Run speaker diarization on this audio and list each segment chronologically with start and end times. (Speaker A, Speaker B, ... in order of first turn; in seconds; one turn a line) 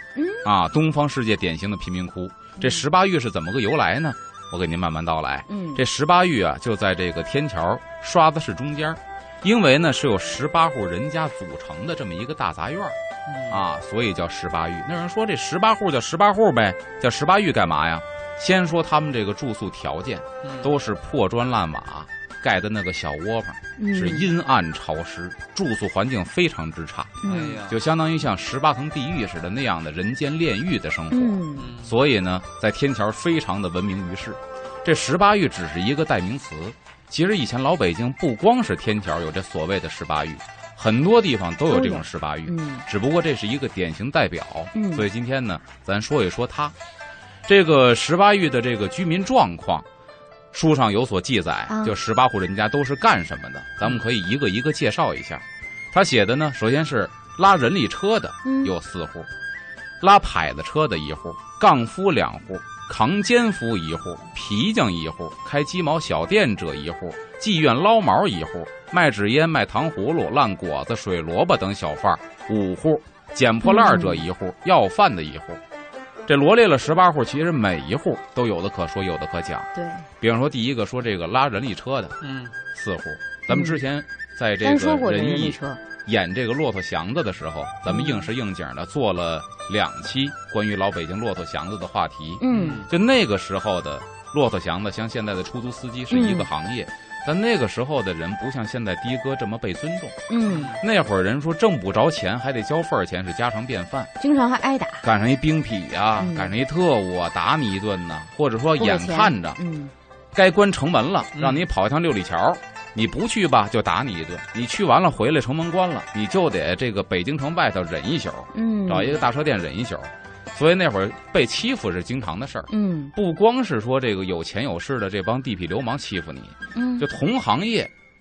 Speaker A: 0.1-0.5
Speaker B: 0.4-13.0
Speaker A: 5.5-5.8
Speaker C: 13.3-13.6
Speaker B: 13.5-46.8
Speaker C: 20.4-20.7
Speaker A: 23.8-24.3
Speaker A: 27.2-27.6
Speaker C: 27.2-27.8
Speaker A: 31.1-31.7
Speaker C: 31.6-32.0
Speaker A: 41.7-42.9
Speaker A: 44.7-45.1
Speaker B: 47.5-49.9
Speaker B: 50.5-59.3
Speaker A: 51.7-52.0
Speaker A: 58.4-58.7
Speaker B: 60.0-75.6
Speaker A: 73.6-74.2
Speaker B: 76.3-79.7
Speaker A: 79.8-80.1
Speaker B: 80.2-82.2
Speaker C: 82.2-82.5
Speaker B: 82.7-100.2
Speaker A: 83.5-83.8
Speaker A: 84.6-85.8
Speaker A: 87.9-88.3
Speaker A: 92.4-92.9
Speaker C: 92.5-92.9
Speaker A: 96.1-96.5
Speaker A: 100.3-100.8
Speaker C: 100.5-100.8
Speaker B: 100.8-104.1
Speaker A: 104.2-105.0
Speaker B: 105.0-109.6
Speaker A: 106.2-106.5
Speaker A: 108.8-109.9
Speaker B: 110.3-127.9
Speaker C: 111.4-111.7
Speaker A: 118.5-119.2
Speaker A: 122.7-123.1
Speaker A: 126.8-127.1